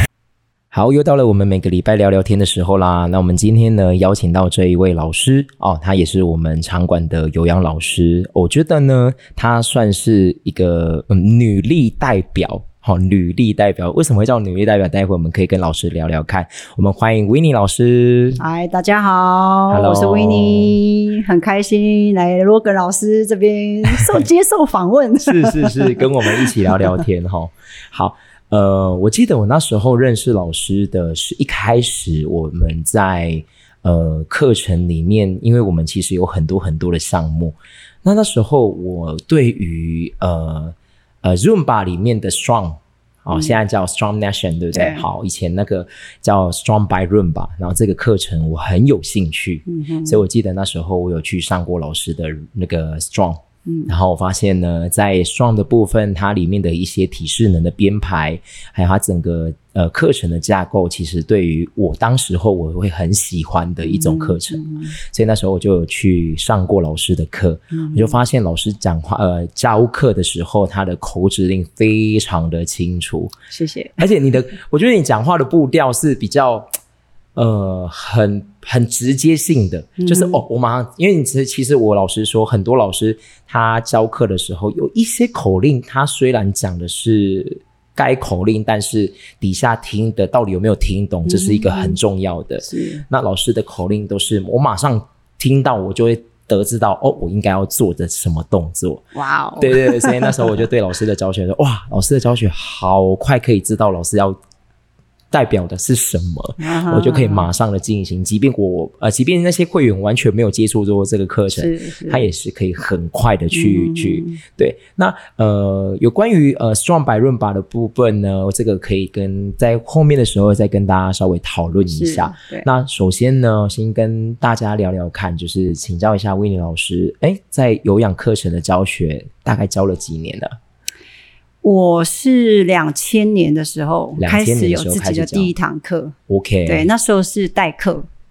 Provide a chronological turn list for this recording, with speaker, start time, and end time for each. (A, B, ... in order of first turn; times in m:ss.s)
0:00.7-0:18.4 A
0:18.4-0:27.0 B
0:19.7-0:20.8 A
0:25.2-1:13.3 A
0:44.7-0:45.0 B
0:49.7-0:50.2 B
0:53.6-0:53.9 B
1:03.8-1:05.0 B
1:07.7-1:08.1 B
1:13.5-1:14.0 B
1:14.0-1:16.7 A
1:17.4-1:39.0 A
1:20.0-1:20.4 B
1:31.2-1:32.0 B
1:32.6-1:33.0 B
1:39.1-1:40.5 B
1:39.6-1:44.4 A
1:45.3-2:10.5 A
1:46.6-1:47.5 B
1:51.5-1:52.2 B
1:53.5-1:54.4 B
2:01.8-2:02.6 B
2:11.6-2:16.1 B
2:14.2-2:15.5 A
2:16.3-2:16.9 A
2:16.6-2:18.1 B